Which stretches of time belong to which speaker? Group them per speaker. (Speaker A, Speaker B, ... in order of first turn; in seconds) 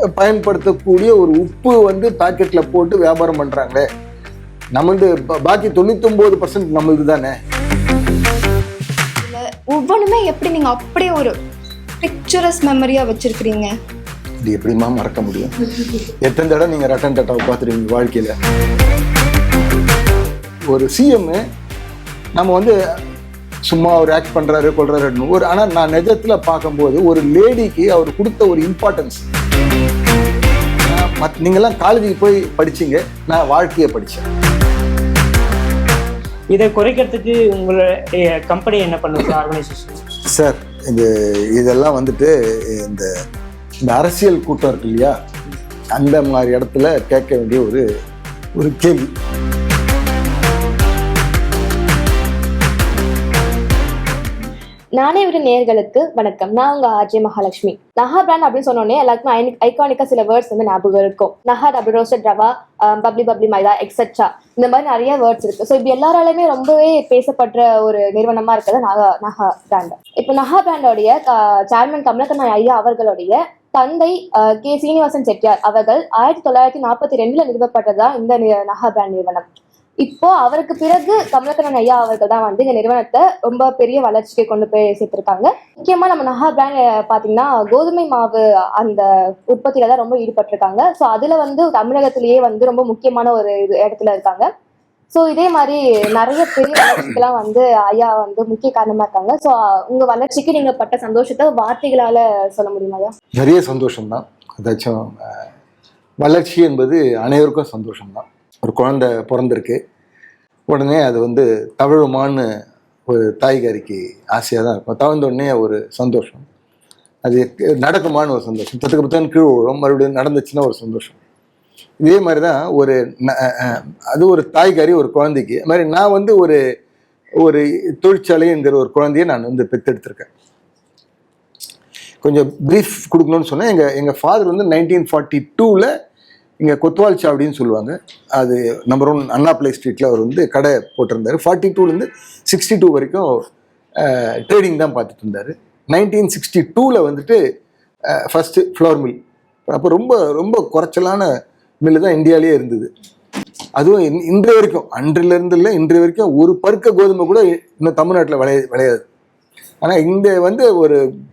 Speaker A: 0.1-3.9, 4.7-7.4, 14.4-18.4, 20.7-21.4, 22.3-22.7, 23.7-29.2, 30.9-34.3, 40.3-43.1, 43.8-45.1, 45.9-47.8, 48.6-49.1, 103.3-105.4, 106.2-109.8, 110.7-112.4, 113.1-116.4, 117.2-121.2, 122.0-126.6, 127.4-130.3, 132.2-135.9, 136.6-143.4, 144.0-147.4, 148.1-149.2, 149.7-151.3, 151.8-152.9, 153.8-159.0, 159.8-161.0
Speaker B: 9.2-11.4, 12.0-13.7
Speaker C: 36.5-40.0
Speaker D: 55.0-79.5, 80.0-94.5, 95.1-103.1